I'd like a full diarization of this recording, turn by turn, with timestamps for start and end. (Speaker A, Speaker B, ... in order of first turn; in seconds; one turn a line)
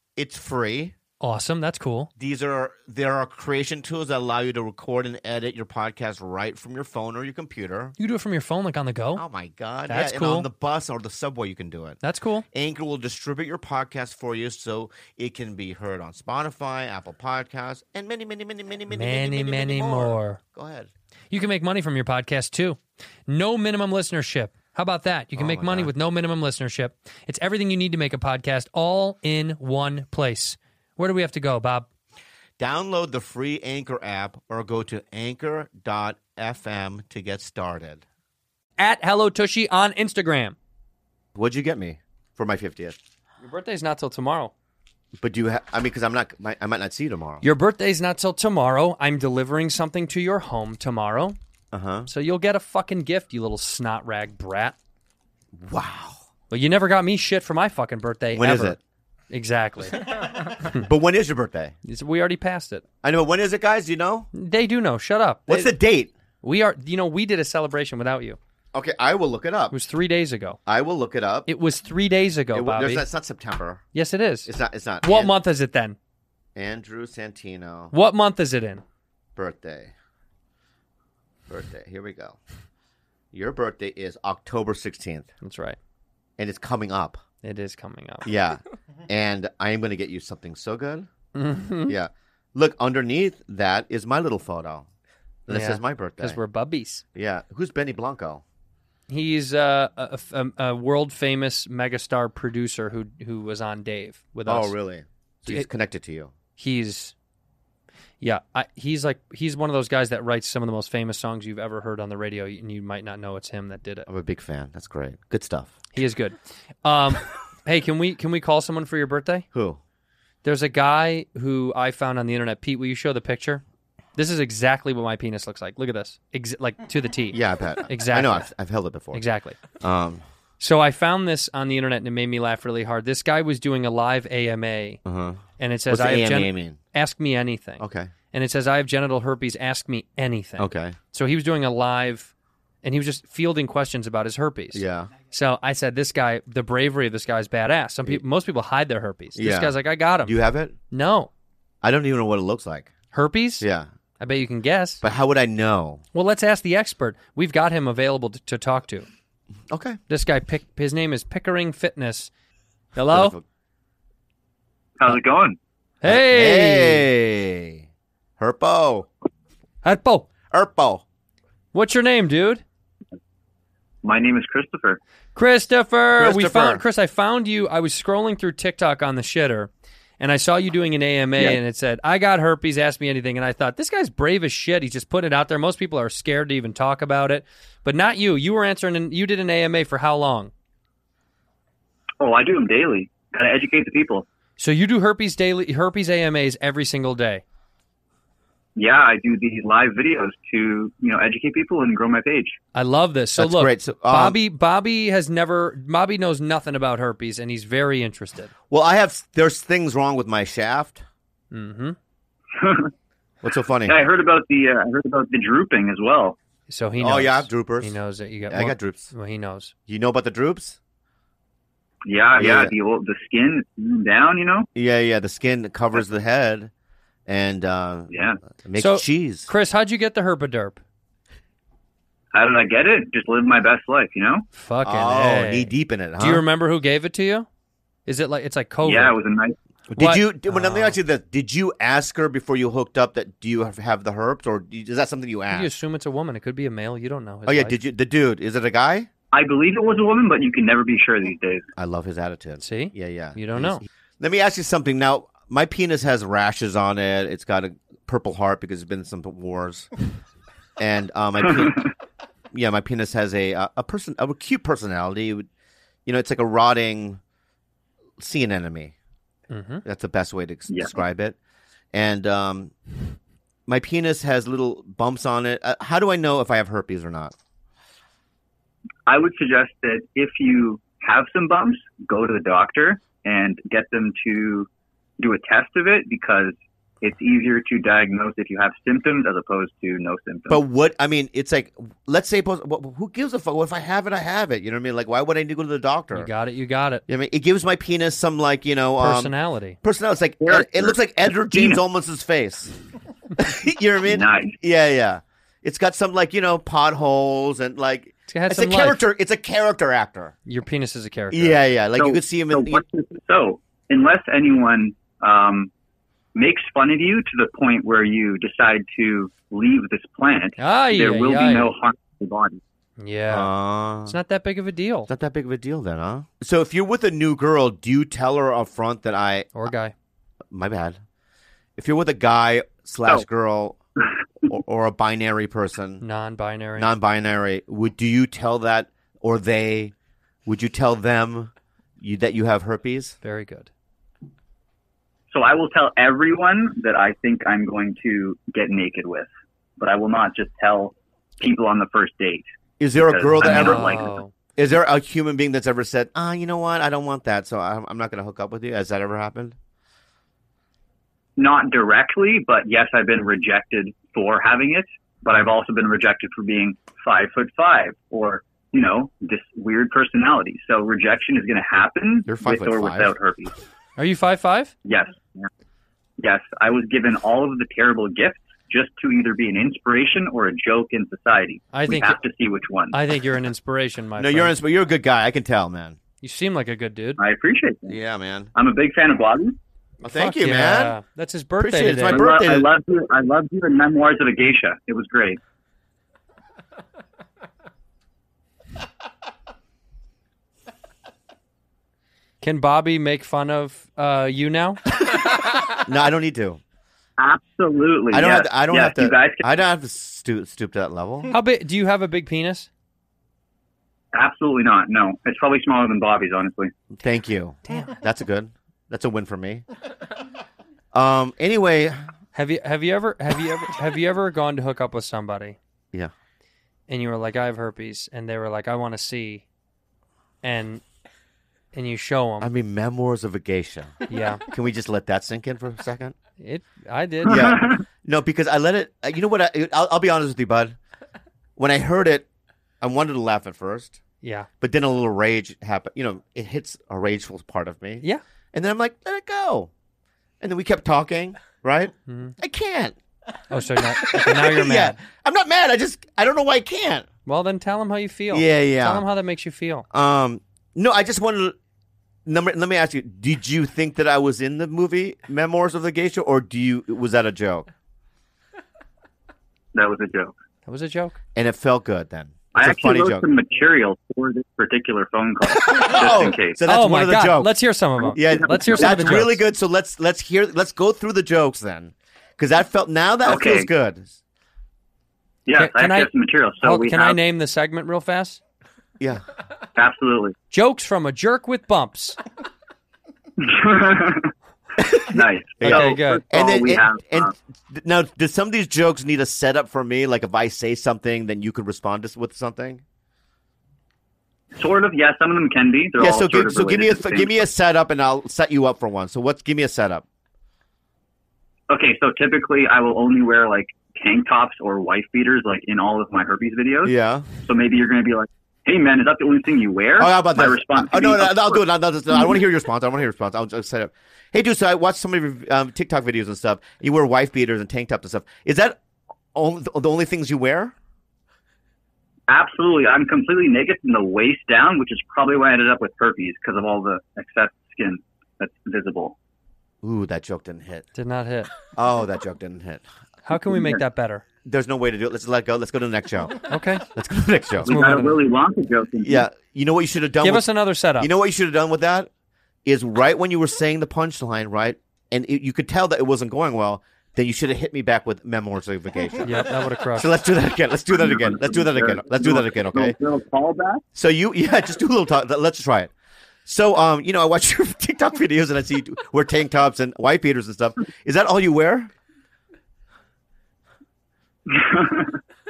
Speaker A: 0.2-0.9
Speaker B: 1.2-2.1
Speaker A: 2.2-8.0
Speaker B: 8.0-9.2
Speaker A: 9.2-12.0
Speaker B: 9.9-10.5
Speaker B: 12.0-12.5
Speaker A: 12.5-20.9
Speaker B: 18.9-20.4
Speaker B: 21.3-31.9
Speaker A: 25.4-25.9
Speaker A: 32.6-38.0
Speaker B: 38.8-40.6
Speaker A: 41.4-43.0
Speaker B: 43.4-44.5
Speaker A: 45.2-47.4
Speaker B: 47.4-51.4
Speaker A: 51.7-52.1
Speaker B: 52.1-54.8
Speaker A: 55.6-56.2
Speaker B: 56.5-58.8
Speaker A: 58.3-58.8
Speaker B: 59.3-60.1
Speaker A: 60.7-61.8
Speaker B: 61.9-62.8
Speaker A: 63.0-64.3
Speaker B: 64.3-65.7
Speaker A: 65.5-66.1
Speaker B: 66.4-68.4
Speaker A: 68.7-69.8
Speaker B: 69.7-70.6
Speaker A: 70.7-71.5
Speaker B: 71.5-73.0
Speaker A: 72.5-73.8
Speaker B: 73.9-74.5
Speaker A: 74.5-75.3
Speaker B: 75.0-76.0
Speaker A: 76.5-77.9
Speaker B: 77.9-78.8
Speaker A: 79.4-79.9
Speaker A: 81.5-82.4
Speaker A: 83.3-85.3
Speaker B: 85.4-85.8
Speaker A: 86.4-87.2
Speaker B: 87.4-88.3
Speaker A: 88.2-91.1
Speaker B: 91.3-92.0
Speaker A: 91.9-94.9
Speaker A: 95.5-96.4
Speaker B: 95.5-97.0
Speaker A: 97.2-98.4
Speaker B: 99.1-104.7
Speaker A: 104.5-106.3
Speaker B: 106.6-107.1
Speaker B: 108.2-114.1
Speaker A: 114.1-115.8
Speaker B: 115.9-119.5
Speaker A: 119.5-119.8
Speaker B: 120.4-123.6
Speaker B: 124.2-128.5
Speaker A: 127.3-129.2
Speaker B: 129.1-129.6
Speaker A: 129.8-130.2
Speaker B: 130.6-135.0
Speaker A: 135.1-136.8
Speaker B: 135.6-142.3
Speaker A: 137.8-138.1
Speaker A: 140.6-141.0
Speaker B: 142.8-150.4
Speaker A: 144.7-145.1
Speaker A: 149.3-150.8
Speaker B: 150.9-151.3
Speaker A: 151.8-152.9
Speaker B: 153.1-153.7
Speaker A: 153.6-153.9
Speaker B: 154.2-155.0
Speaker A: 155.0-156.0
Speaker B: 156.1-159.1
Speaker A: 159.7-160.0
Speaker B: 160.1-162.3
Speaker B: 162.9-163.4
Speaker A: 163.1-163.4
Speaker C: 165.0-165.6
Speaker B: 166.0-167.1
Speaker A: 166.0-167.9
Speaker A: 168.4-169.1
Speaker B: 169.8-170.3
Speaker A: 170.5-171.1
Speaker B: 171.7-172.6
Speaker C: 174.0-175.0
Speaker B: 175.3-190.5
Speaker A: 176.2-176.8
Speaker C: 192.2-194.3
Speaker B: 194.6-197.4
Speaker C: 198.8-202.6
Speaker B: 202.7-208.5
Speaker A: 203.4-204.4
Speaker A: 208.7-211.0
Speaker B: 211.5-212.0
Speaker C: 212.6-212.9
Speaker A: 213.4-214.0
Speaker C: 213.9-216.4
Speaker B: 216.7-219.7
Speaker A: 217.0-219.1
Speaker A: 219.9-220.8
Speaker C: 222.1-224.7
Speaker A: 222.4-222.8
Speaker A: 224.8-226.7
Speaker A: 227.3-229.5
Speaker C: 228.1-228.4
Speaker B: 228.8-230.8
Speaker C: 232.3-234.5
Speaker B: 234.5-237.5
Speaker A: 234.8-236.4
Speaker B: 238.1-239.2
Speaker C: 238.8-239.6
Speaker A: 239.9-245.7
Speaker B: 240.0-241.0
Speaker B: 245.5-247.8
Speaker A: 247.5-249.1
Speaker C: 249.3-251.7
Speaker A: 251.8-259.9
Speaker B: 252.6-253.8
Speaker A: 260.8-261.8
Speaker A: 262.5-265.5
Speaker A: 266.1-267.2
Speaker A: 268.2-268.9
Speaker B: 269.5-269.8
Speaker A: 269.9-271.4
Speaker A: 271.9-272.7
Speaker A: 273.7-277.4
Speaker C: 279.1-284.7
Speaker C: 285.2-290.6
Speaker A: 290.5-296.3
Speaker B: 296.1-297.0
Speaker A: 297.1-302.7
Speaker B: 299.0-299.8
Speaker C: 300.4-301.8
Speaker A: 303.4-310.4
Speaker C: 304.1-304.6
Speaker B: 308.3-309.0
Speaker B: 310.5-311.6
Speaker A: 311.3-312.8
Speaker C: 311.9-315.7
Speaker C: 316.4-322.6
Speaker B: 320.6-321.7
Speaker B: 323.0-323.5
Speaker A: 323.3-324.2
Speaker B: 324.1-325.1
Speaker A: 325.1-329.7
Speaker B: 329.5-329.9
Speaker A: 330.5-331.0
Speaker A: 331.8-333.8
Speaker A: 334.5-336.0
Speaker B: 336.0-336.9
Speaker A: 336.8-339.9
Speaker A: 340.5-343.2
Speaker B: 343.2-343.7
Speaker C: 345.3-354.1
Speaker A: 352.8-354.0
Speaker B: 353.4-354.3
Speaker A: 354.6-359.6
Speaker C: 361.4-373.5
Speaker A: 372.3-373.1
Speaker B: 374.0-374.7
Speaker C: 374.9-375.5
Speaker C: 376.2-383.0
Speaker B: 381.7-382.2
Speaker B: 382.9-384.5
Speaker A: 384.2-386.0
Speaker B: 386.2-387.2
Speaker C: 387.2-388.0
Speaker A: 387.9-388.5
Speaker C: 388.6-389.6
Speaker A: 390.0-391.0
Speaker B: 390.0-392.2
Speaker A: 391.6-392.7
Speaker C: 392.1-395.4
Speaker B: 402.4-404.8
Speaker A: 405.8-406.6
Speaker C: 407.2-409.5
Speaker A: 408.1-411.3
Speaker B: 411.3-412.7
Speaker C: 414.1-416.7
Speaker A: 416.9-419.6
Speaker A: 420.9-422.0
Speaker B: 422.3-425.6
Speaker B: 426.9-429.4
Speaker B: 430.4-430.8
Speaker B: 431.7-432.5
Speaker A: 432.4-436.2
Speaker B: 434.1-434.4
Speaker B: 436.4-437.6
Speaker A: 437.3-440.8
Speaker C: 437.3-437.8
Speaker A: 441.6-442.3
Speaker A: 442.8-444.0
Speaker B: 444.2-444.5
Speaker A: 444.6-449.7
Speaker A: 450.4-453.0
Speaker B: 452.1-452.3
Speaker B: 453.5-455.0
Speaker A: 453.9-457.1
Speaker B: 457.3-459.9
Speaker A: 458.3-459.1
Speaker A: 459.9-461.6
Speaker A: 462.3-467.7
Speaker C: 469.7-470.4
Speaker B: 470.7-471.2
Speaker A: 471.4-473.2
Speaker C: 472.5-476.6
Speaker A: 475.7-477.6
Speaker B: 476.7-479.4
Speaker C: 478.0-479.1
Speaker A: 478.1-484.2
Speaker C: 483.2-483.7
Speaker C: 485.5-487.2
Speaker B: 485.5-486.1
Speaker B: 486.6-488.4
Speaker A: 489.0-489.2
Speaker C: 489.8-490.4
Speaker B: 490.5-492.2
Speaker C: 493.4-494.3
Speaker C: 495.0-497.3
Speaker A: 495.6-502.8
Speaker B: 495.6-496.2
Speaker C: 504.6-507.4
Speaker A: 506.0-510.1
Speaker C: 511.7-522.4
Speaker A: 516.8-517.3
Speaker A: 520.0-528.8
Speaker A: 529.3-530.7
Speaker C: 532.3-539.2
Speaker A: 539.8-540.9
Speaker B: 541.0-541.5
Speaker A: 541.7-542.8
Speaker B: 543.2-544.2
Speaker C: 543.5-543.8
Speaker A: 544.5-547.7
Speaker B: 546.5-546.9
Speaker C: 547.6-549.3
Speaker B: 547.7-548.2
Speaker A: 549.0-552.1
Speaker B: 550.2-551.1
Speaker A: 552.6-559.4
Speaker B: 559.2-560.1
Speaker A: 560.0-563.0
Speaker C: 560.9-563.8
Speaker A: 563.9-565.9
Speaker A: 566.5-571.9
Speaker C: 574.5-575.2